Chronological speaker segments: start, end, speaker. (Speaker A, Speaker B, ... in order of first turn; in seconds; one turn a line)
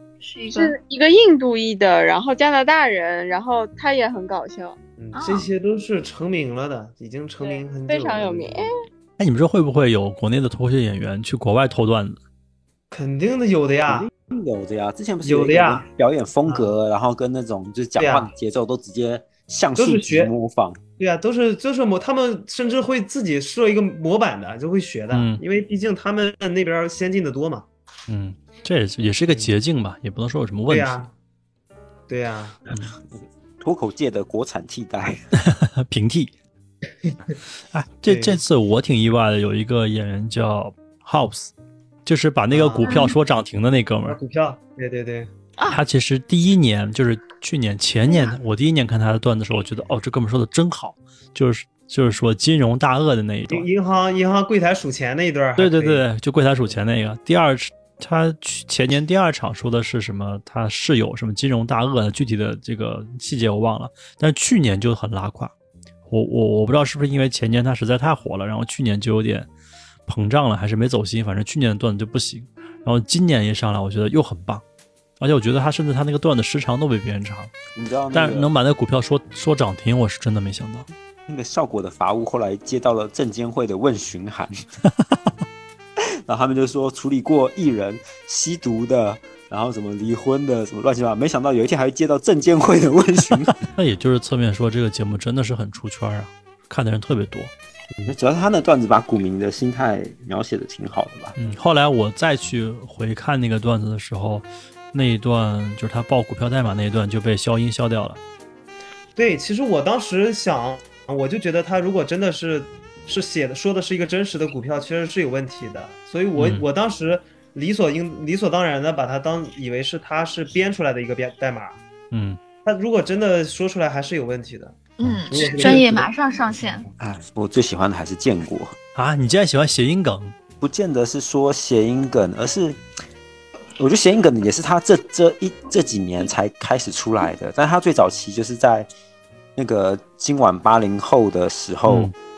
Speaker A: 0.2-0.8
Speaker B: 0.5-4.8
Speaker C: 5.0-8.7
Speaker A: 5.1-5.5
Speaker B: 7.4-8.8
Speaker D: 9.2-12.2
Speaker C: 12.9-14.1
Speaker E: 13.9-20.8
Speaker C: 15.2-15.9
Speaker C: 16.4-16.7
Speaker C: 18.0-18.3
Speaker C: 19.8-20.3
Speaker C: 21.0-27.7
Speaker D: 25.1-25.4
Speaker D: 28.1-31.1
Speaker C: 30.7-31.1
Speaker C: 32.1-32.6
Speaker E: 33.0-35.2
Speaker D: 35.4-36.3
Speaker C: 37.0-37.4
Speaker D: 37.7-41.5
Speaker C: 38.1-38.4
Speaker D: 42.0-44.2
Speaker C: 42.5-43.0
Speaker A: 42.8-43.1
Speaker C: 44.1-45.3
Speaker D: 45.7-53.7
Speaker A: 48.1-48.4
Speaker C: 53.5-56.0
Speaker D: 55.6-65.5
Speaker D: 66.1-69.5
Speaker D: 70.1-74.6
Speaker D: 75.2-77.5
Speaker E: 77.8-78.5
Speaker D: 78.1-80.9
Speaker E: 81.3-84.7
Speaker E: 86.3-93.6
Speaker D: 93.6-97.5
Speaker E: 98.1-101.3
Speaker D: 101.4-108.2
Speaker C: 109.2-121.8
Speaker D: 116.4-116.7
Speaker D: 122.1-122.4
Speaker C: 122.6-126.1
Speaker A: 125.0-126.9
Speaker E: 127.0-128.8
Speaker D: 128.9-130.4
Speaker E: 130.6-132.8
Speaker E: 133.8-138.9
Speaker E: 139.6-142.1
Speaker D: 141.9-142.1